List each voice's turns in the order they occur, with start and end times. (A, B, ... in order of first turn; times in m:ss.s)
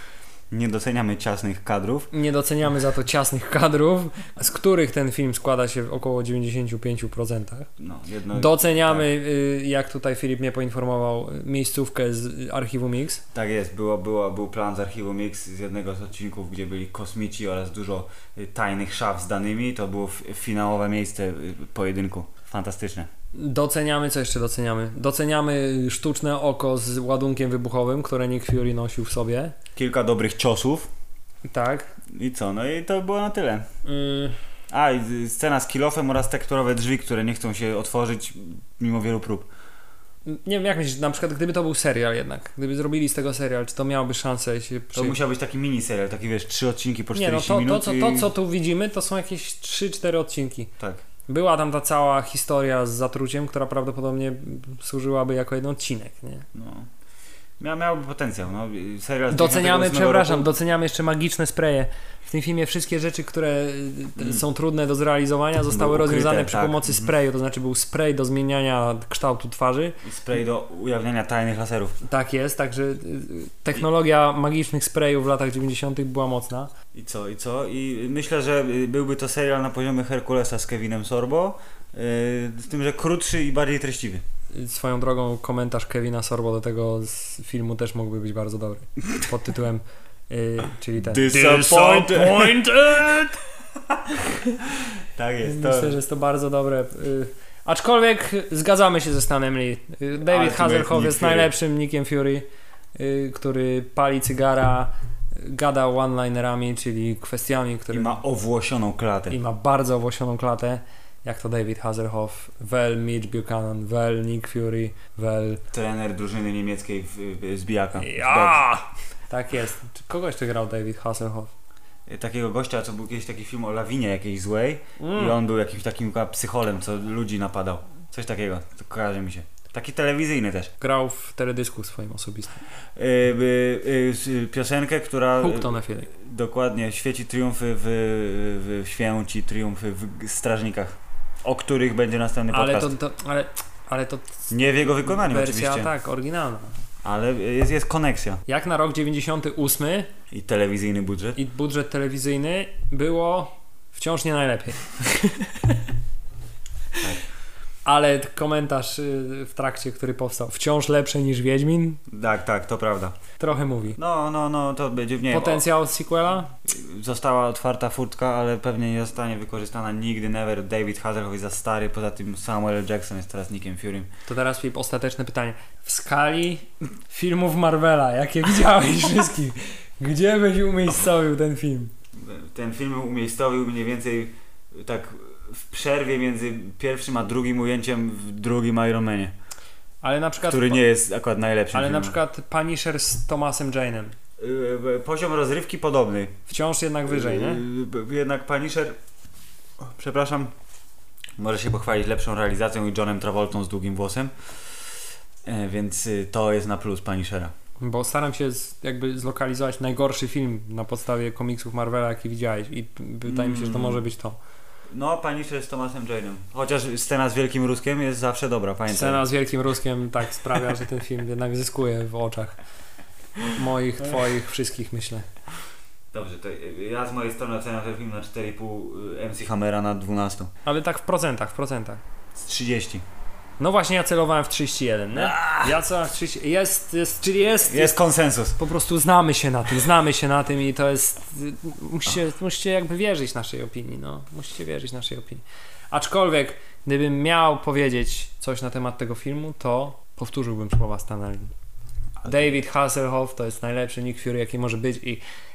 0:00.5-0:02.1 A
0:02.1-0:07.7 B
0:07.8-0:09.1 A
0:08.3-0:13.2 B
0:13.3-0:23.1 A
0:23.3-0:29.5 B
0:29.8-0:30.9 A
0:31.4-0:31.9 B
0:32.1-0:33.7 A
0:33.8-0:34.4 B
0:34.7-0:39.5 A
0:40.3-0:45.2 B
0:44.9-0:48.3 A
0:47.2-0:50.7 B
0:51.3-0:56.5 B
0:56.5-0:56.9 A
0:57.6-1:00.5 A
0:59.3-1:10.0 B
1:05.7-1:07.1 A
1:10.0-1:12.0 A
1:12.0-1:16.7 B
1:16.9-1:24.2 A
1:24.5-1:33.3 B
1:31.0-1:34.2 A
1:34.8-1:36.0 A
1:35.4-1:48.2 B
1:40.2-1:41.5 A
1:47.9-1:49.4 A
1:49.3-1:55.6 B
1:55.7-1:58.6 A
1:58.0-2:01.5 B
2:02.1-2:10.7 A
2:05.0-2:05.4 B
2:10.8-2:12.6 B
2:13.0-2:22.9 A
2:15.4-2:16.1 B
2:22.5-2:24.4 B
2:24.5-2:25.9 A
2:25.1-2:26.8 B
2:27.0-2:28.4 A
2:28.5-2:30.1 B
2:30.3-2:31.4 A
2:31.4-2:35.8 B
2:37.8-2:42.0 B
2:42.1-2:43.2 A
2:43.4-2:44.0 B
2:44.0-2:45.6 A
2:45.3-2:46.5 B
2:46.6-2:54.1 A
2:54.3-3:01.9 B
3:02.2-3:09.3 A
3:10.0-3:10.9 B
3:10.5-3:12.2 A
3:11.7-3:14.2 B
3:14.4-3:16.4 A
3:16.5-3:17.6 B
3:17.1-3:19.0 A
3:19.8-3:20.5 A
3:21.4-3:24.7 A
3:25.4-3:27.5 A
3:27.8-3:34.4 B
3:33.3-3:34.0 A
3:34.9-3:39.2 A
3:38.9-3:42.6 B
3:43.5-3:45.3 B
3:46.1-3:50.5 A
3:50.6-3:52.0 B
3:52.4-3:53.0 A
3:53.6-3:58.0 B
3:55.1-3:55.8 A
3:57.7-3:58.6 A
3:58.6-4:11.5 B
4:12.2-4:15.2 B